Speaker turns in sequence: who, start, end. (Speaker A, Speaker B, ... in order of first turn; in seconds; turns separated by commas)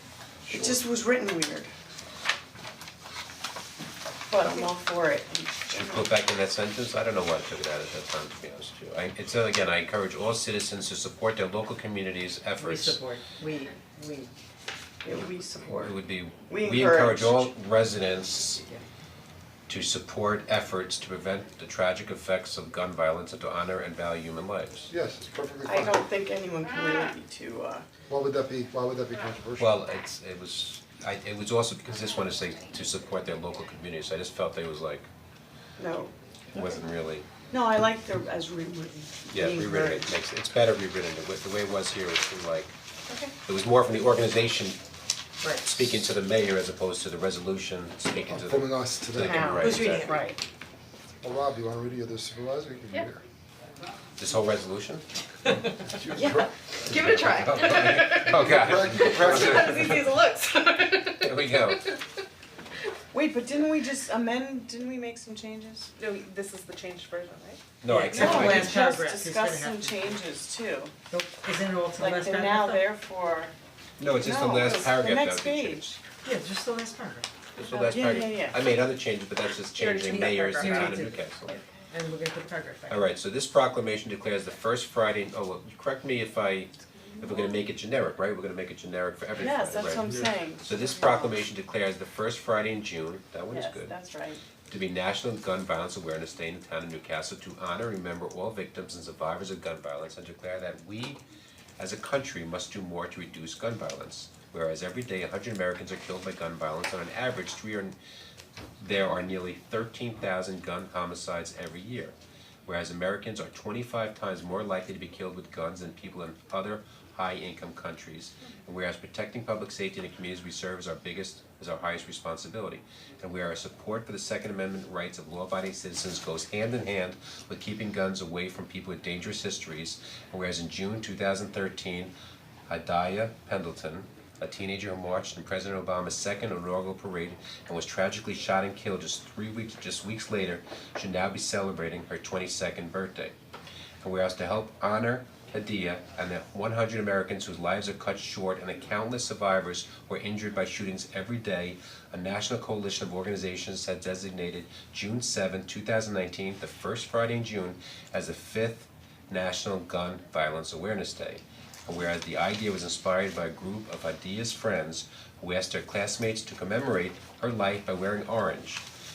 Speaker A: 0.5-1.7, Speaker A: 4.3-6.1, Speaker B: 5.7-13.0, Speaker C: 12.6-14.3, Speaker A: 15.0-17.5, Speaker B: 15.8-18.6, Speaker B: 19.7-24.9, Speaker D: 24.9-26.0, Speaker A: 25.7-27.9, Speaker D: 28.1-29.8, Speaker B: 29.6-35.1, Speaker A: 35.8-36.1, Speaker B: 36.5-37.3, Speaker A: 37.5-40.0, Speaker B: 39.3-42.8, Speaker A: 43.1-43.3, Speaker B: 43.5-44.8, Speaker C: 45.4-45.7, Speaker B: 45.6-50.2, Speaker D: 48.2-49.7, Speaker A: 49.2-50.4, Speaker E: 49.8-50.2, Speaker D: 51.2-53.2, Speaker B: 54.2-55.1, Speaker D: 55.8-57.5, Speaker E: 56.1-61.6, Speaker B: 57.4-59.8, Speaker D: 58.2-60.0, Speaker B: 61.1-61.9, Speaker A: 63.1-65.9, Speaker E: 66.0-67.6, Speaker B: 67.8-68.8, Speaker C: 67.9-70.0, Speaker A: 68.1-70.9, Speaker C: 71.1-72.8, Speaker A: 72.0-73.5, Speaker B: 74.0-76.0, Speaker A: 74.2-75.9, Speaker C: 76.2-77.3, Speaker B: 77.6-81.6, Speaker A: 77.7-78.6, Speaker C: 79.8-81.2, Speaker A: 81.5-81.7, Speaker C: 81.9-83.1, Speaker B: 82.9-93.9, Speaker A: 89.4-91.5, Speaker A: 93.5-94.4, Speaker B: 94.7-101.2, Speaker B: 101.8-108.0, Speaker B: 108.8-112.2, Speaker B: 112.7-132.1, Speaker B: 132.7-143.3, Speaker B: 144.0-168.8